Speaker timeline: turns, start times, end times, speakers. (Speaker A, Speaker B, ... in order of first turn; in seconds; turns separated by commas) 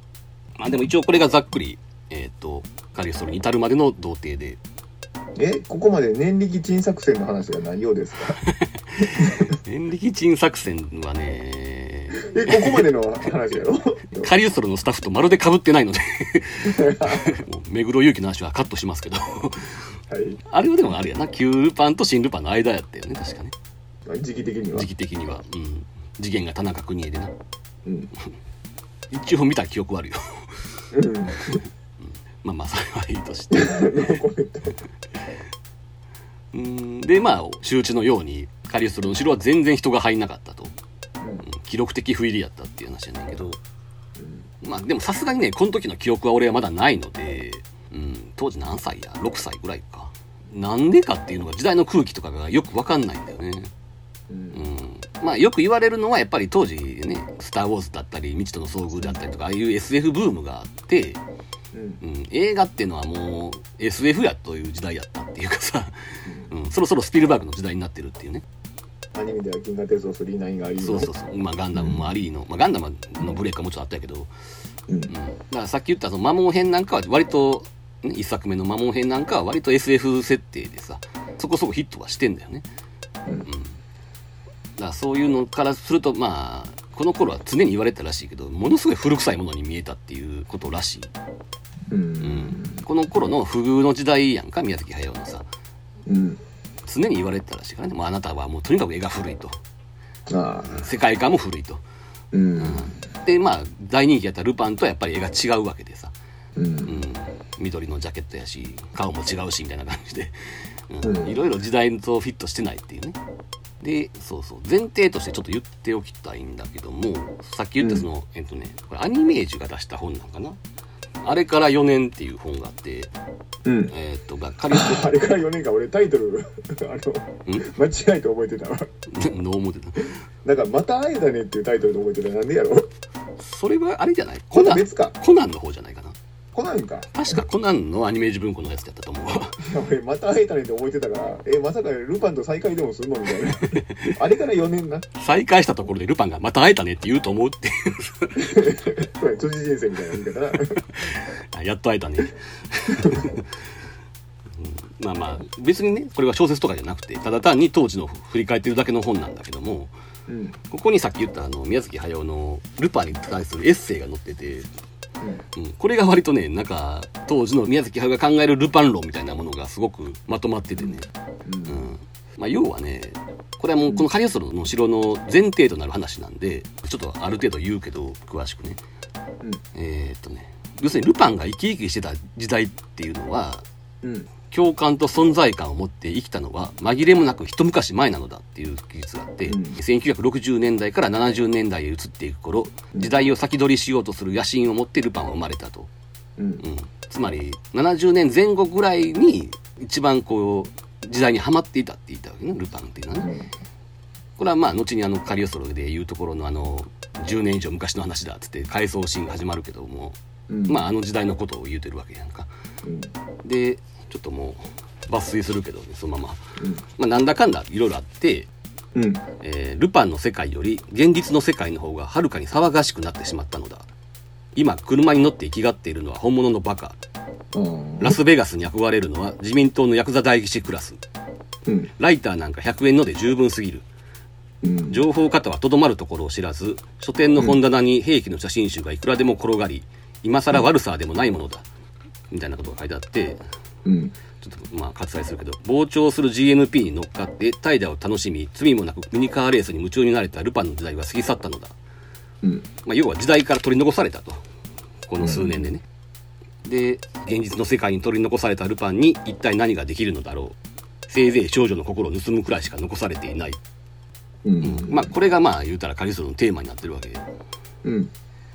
Speaker A: 0.6-4.6, Speaker B: 5.4-8.4, Speaker A: 8.4-12.9, Speaker B: 9.1-9.5, Speaker B: 12.2-14.3, Speaker A: 14.2-19.9, Speaker B: 16.6-17.4, Speaker B: 20.1-20.4, Speaker A: 20.5-23.5, Speaker B: 24.1-24.9, Speaker A: 24.7-27.3, Speaker B: 27.9-28.1, Speaker A: 29.1-30.5, Speaker B: 30.9-31.6, Speaker A: 31.4-31.6, Speaker A: 32.4-34.2, Speaker B: 33.5-34.8, Speaker A: 36.5-40.8, Speaker B: 41.2-41.5, Speaker A: 41.4-43.6, Speaker B: 44.2-44.5, Speaker A: 44.6-53.7, Speaker B: 54.3-54.6, Speaker A: 54.5-61.2, Speaker B: 61.7-62.0, Speaker A: 62.0-68.4, Speaker B: 66.3-66.5, Speaker B: 69.1-71.1, Speaker A: 70.8-74.3, Speaker B: 71.8-72.0, Speaker B: 74.9-75.1, Speaker A: 75.1-82.7, Speaker A: 83.5-83.8, Speaker A: 84.8-91.1, Speaker B: 91.9-92.8, Speaker A: 92.2-95.5, Speaker B: 96.1-96.4, Speaker A: 96.8-99.6, Speaker B: 100.3-100.9, Speaker A: 100.7-101.8, Speaker B: 102.3-103.0, Speaker A: 102.6-106.1, Speaker B: 106.6-107.0, Speaker A: 106.8-110.3, Speaker A: 110.9-113.2, Speaker B: 111.0-111.4, Speaker A: 113.8-120.6, Speaker B: 117.8-118.1, Speaker A: 121.2-123.1, Speaker B: 123.7-123.9, Speaker A: 123.9-125.1, Speaker B: 124.7-128.9, Speaker A: 129.1-130.2, Speaker B: 130.4-132.9, Speaker A: 133.4-136.2, Speaker B: 134.5-135.2, Speaker B: 136.5-137.1, Speaker A: 137.1-139.6, Speaker B: 139.6-145.1, Speaker A: 143.7-144.2, Speaker A: 145.2-149.0, Speaker B: 148.4-150.8, Speaker A: 150.9-153.5, Speaker B: 152.9-153.2, Speaker A: 154.6-159.9, Speaker B: 160.3-160.6, Speaker A: 160.7-164.7, Speaker A: 165.6-171.1, Speaker B: 170.8-171.9, Speaker A: 171.7-178.8, Speaker A: 179.8-183.7, Speaker B: 184.0-184.3, Speaker A: 184.5-195.9, Speaker B: 189.5-189.8, Speaker B: 196.4-196.6, Speaker A: 196.6-203.3, Speaker B: 203.2-203.5, Speaker A: 204.4-212.5, Speaker B: 210.5-210.8, Speaker B: 212.8-213.1, Speaker A: 213.4-216.4, Speaker B: 216.6-216.8, Speaker A: 217.0-218.5, Speaker B: 218.9-219.2, Speaker A: 219.4-223.9, Speaker A: 224.6-227.0, Speaker B: 227.5-228.2, Speaker A: 228.0-231.0, Speaker B: 231.7-231.9, Speaker A: 232.0-233.9, Speaker B: 234.6-235.0, Speaker A: 234.9-241.7, Speaker A: 242.3-243.4, Speaker B: 243.8-244.2, Speaker A: 244.4-251.8, Speaker B: 252.4-252.7, Speaker A: 252.8-254.4, Speaker A: 255.1-255.8, Speaker B: 255.2-255.7, Speaker A: 256.6-260.6, Speaker A: 261.1-263.6, Speaker B: 264.4-265.1, Speaker A: 264.6-267.3, Speaker B: 267.8-268.1